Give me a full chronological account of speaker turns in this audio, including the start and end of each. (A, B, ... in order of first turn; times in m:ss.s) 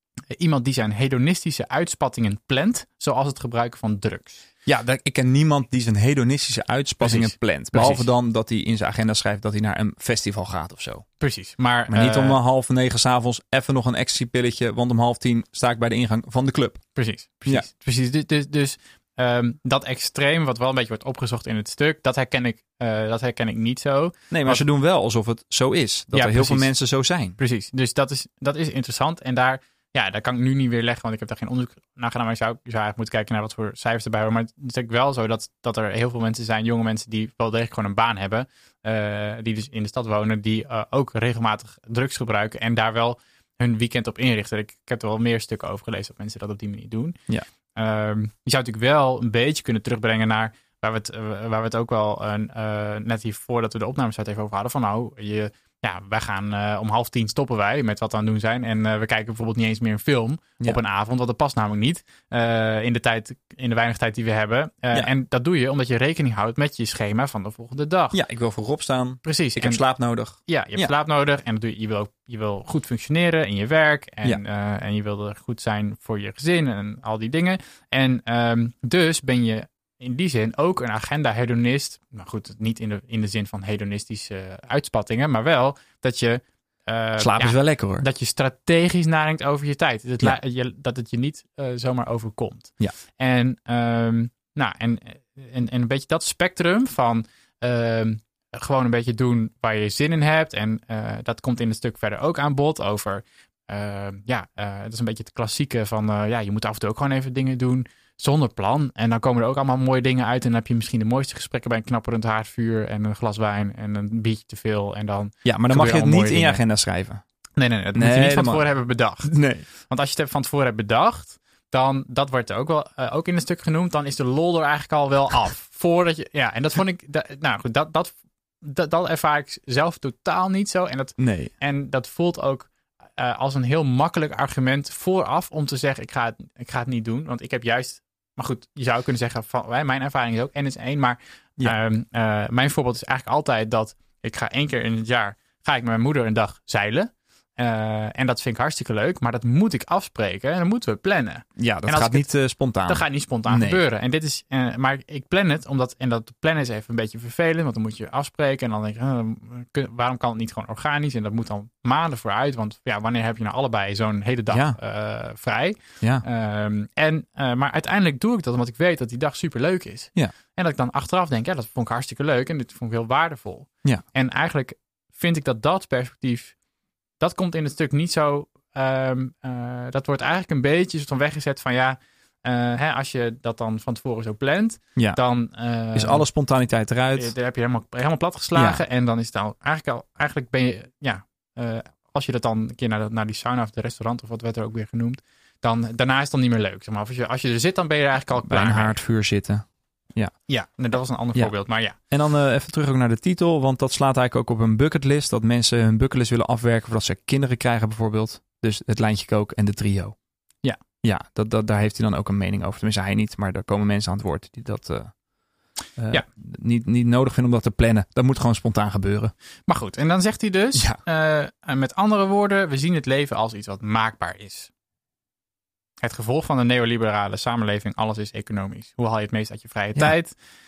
0:00.3-0:04.4 A
0:04.6-0:11.0 B
0:07.0-0:08.1 A
0:11.2-0:12.4 A
0:11.9-0:16.8 B
0:16.9-0:24.6 A
0:24.3-0:27.4 B
0:26.1-0:26.7 A
0:27.4-0:47.2 A
0:47.7-1:08.2 A
1:08.1-1:10.9 B
1:09.2-1:09.8 A
1:10.4-1:56.6 A
1:27.2-1:28.0 B
1:55.4-1:57.2 B
1:57.6-2:32.3 A
1:57.9-1:59.6 B
2:11.2-2:11.5 B
2:31.6-2:33.8 B
2:32.8-2:56.6 A
2:44.5-2:44.8 B
2:57.2-3:06.2 A
3:05.9-3:07.3 B
3:07.2-3:19.0 A
3:08.5-3:08.8 B
3:18.4-3:20.4 B
3:20.5-3:22.0 A
3:21.3-3:30.2 B
3:31.0-3:35.2 B
3:36.0-3:39.3 B
3:39.7-3:44.7 A
3:46.0-3:50.4 A